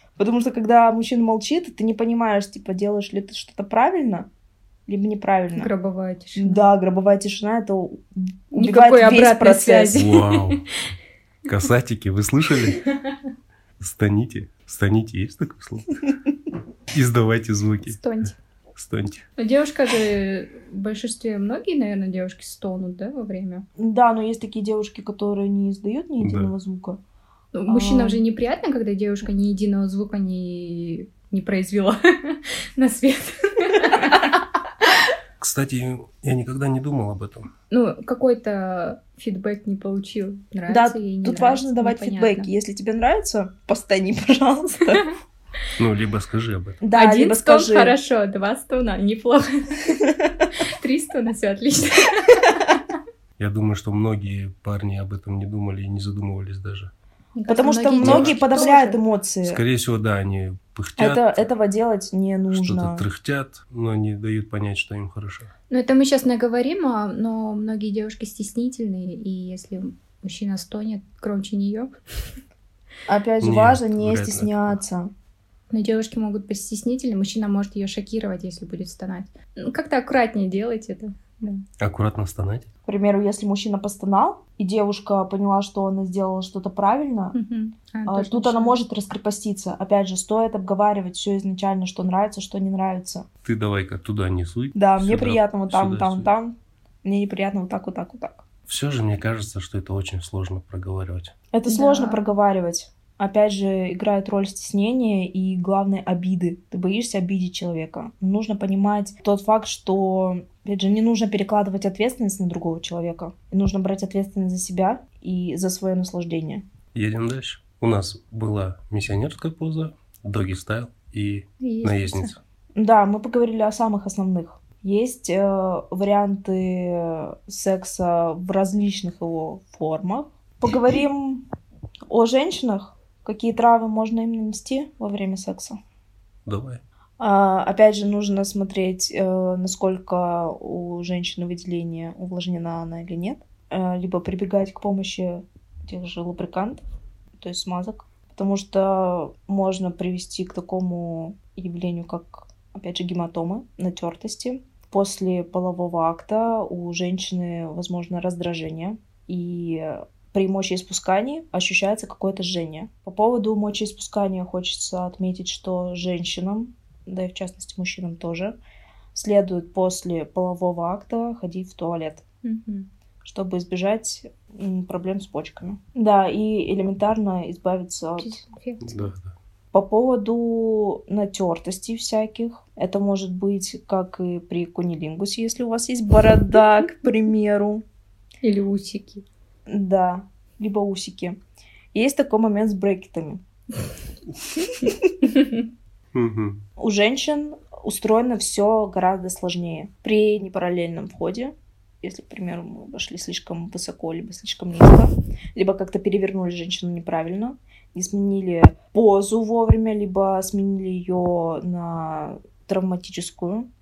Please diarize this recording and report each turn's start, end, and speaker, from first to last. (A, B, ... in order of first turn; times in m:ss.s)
0:00.2-0:04.3 A
0:04.9-0:05.7 A
0:05.6-0:06.6 B
0:06.4-0:10.0 A
0:08.5-0:10.6 B
0:09.9-0:10.6 C
0:11.5-0:12.8 C
0:13.8-0:16.0 C
0:16.9-0:18.0 C
0:17.9-0:18.3 B
0:18.8-0:19.2 C
0:19.4-0:23.7 B
0:23.8-0:27.0 A
0:26.2-0:26.5 C
0:27.5-0:34.4 B
0:27.7-0:28.2 A
0:35.4-0:37.5 C
0:37.7-0:42.5 B
0:40.7-0:45.1 A
0:45.8-0:46.8 C
0:46.8-0:48.0 A
0:46.9-0:52.8 B
0:53.4-0:56.9 C
0:57.4-0:59.0 B
0:57.5-0:59.6 A
0:58.0-0:58.4 C
0:59.4-1:01.5 C
1:01.0-1:03.0 A
1:02.5-1:05.5 C
1:05.7-1:11.9 B
1:13.1-1:15.1 A
1:13.4-1:14.8 C
1:15.7-1:21.6 B
1:21.8-1:22.7 C
1:22.9-1:27.4 A
1:27.4-1:28.8 B
1:28.1-1:33.3 A
1:33.4-1:36.3 C
1:34.8-1:38.4 A
1:38.7-1:41.3 C
1:41.5-1:56.6 A
1:41.7-1:42.3 B
1:56.9-2:02.4 C
2:01.6-2:02.4 B
2:02.8-2:11.4 A
2:12.1-2:15.8 A
2:16.5-2:16.8 C
2:17.2-2:26.8 A
2:27.4-2:48.6 A
2:49.1-2:52.2 A
2:52.4-2:52.9 B
2:53.2-2:58.4 A
2:58.2-2:59.1 B
2:58.8-2:59.4 C
2:59.7-3:07.8 A
3:08.4-3:09.2 B
3:09.7-3:11.4 A
3:11.9-3:13.4 A
3:14.7-3:15.2 A
3:16.1-3:16.6 C
3:16.8-3:33.7 A